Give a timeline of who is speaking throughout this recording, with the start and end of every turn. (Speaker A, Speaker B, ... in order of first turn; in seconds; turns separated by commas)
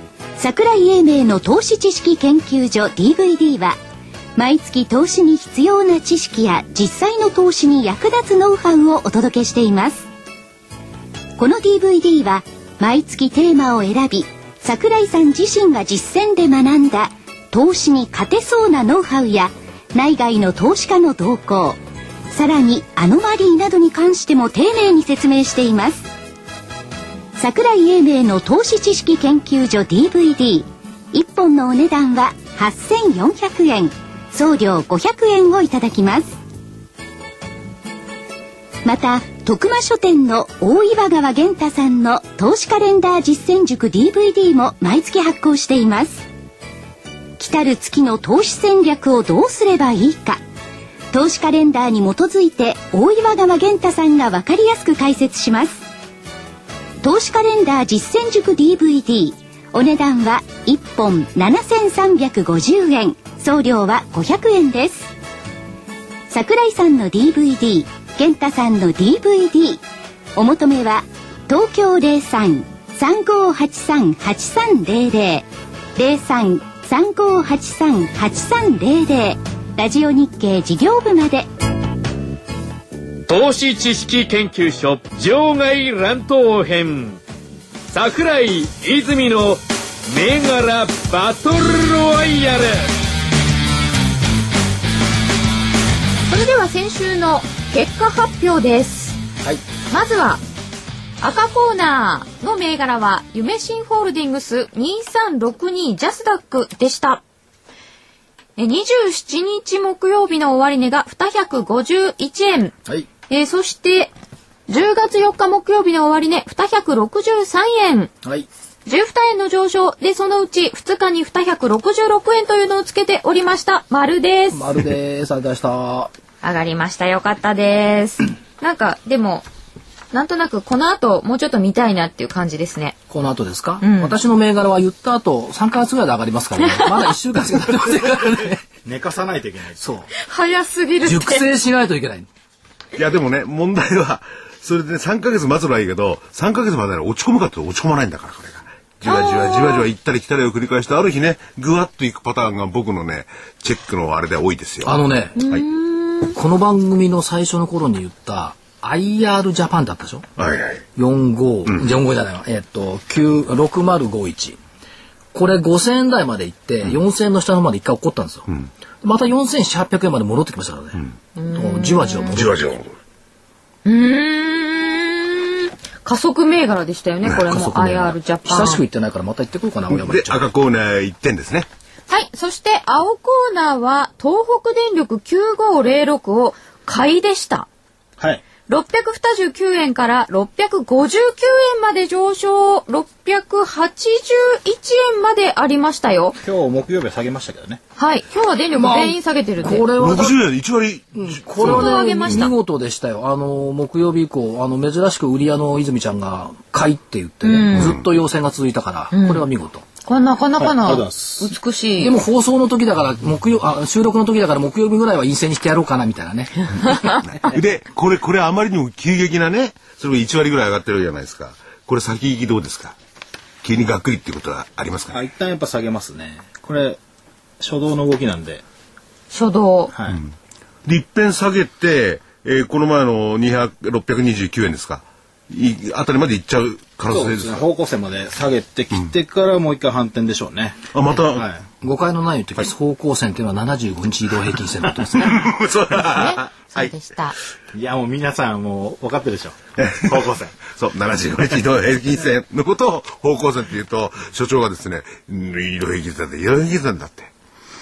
Speaker A: 0.4-3.8, Speaker A: 4.3-10.1, Speaker A: 11.4-21.8, Speaker A: 22.3-26.1, Speaker A: 27.4-36.4, Speaker A: 38.8-46.2, Speaker A: 47.4-50.4, Speaker A: 51.1-55.8, Speaker A: 57.0-65.1, Speaker A: 66.3-69.8, Speaker A: 70.3-81.5, Speaker B: 83.3-87.2, Speaker B: 87.9-92.9, Speaker C: 96.3-99.2, Speaker C: 99.9-100.4, Speaker C: 101.2-107.2, Speaker C: 108.6-112.7, Speaker C: 113.3-114.1, Speaker C: 114.7-118.1, Speaker C: 118.8-124.7, Speaker D: 124.5-126.1, Speaker C: 126.4-129.4, Speaker C: 130.1-132.9, Speaker D: 133.1-138.7, Speaker C: 133.8-134.2, Speaker C: 136.7-136.9, Speaker E: 138.8-139.8, Speaker D: 139.8-140.1, Speaker C: 140.1-141.4, Speaker D: 141.0-142.3, Speaker F: 142.9-155.0, Speaker C: 149.0-149.9, Speaker D: 154.8-155.4, Speaker C: 155.4-156.4, Speaker D: 156.3-160.2, Speaker F: 160.4-160.8, Speaker D: 160.9-164.6, Speaker D: 165.3-168.5, Speaker D: 169.0-172.5, Speaker C: 171.3-172.4, Speaker F: 172.3-172.9, Speaker C: 173.8-178.8, Speaker D: 177.3-180.5, Speaker F: 179.9-181.7, Speaker C: 182.1-187.7, Speaker C: 188.7-196.4, Speaker E: 196.4-197.8, Speaker C: 198.0-200.0, Speaker D: 198.7-200.4, Speaker F: 199.9-202.5, Speaker D: 201.1-209.8, Speaker C: 201.6-202.5, Speaker C: 207.4-208.0, Speaker F: 207.7-208.0, Speaker C: 209.1-209.5, Speaker C: 210.0-212.2, Speaker E: 210.6-211.5, Speaker D: 212.0-217.1, Speaker F: 217.2-222.9, Speaker F: 223.6-225.2, Speaker E: 225.1-227.0, Speaker E: 227.6-228.6, Speaker C: 229.3-229.9, Speaker E: 229.9-230.2, Speaker F: 230.8-237.6, Speaker E: 237.1-240.8, Speaker F: 240.9-241.5, Speaker E: 241.3-241.6, Speaker D: 241.8-245.4, Speaker F: 245.2-246.9, Speaker C: 245.9-247.3, Speaker E: 247.7-250.5, Speaker F: 249.8-257.3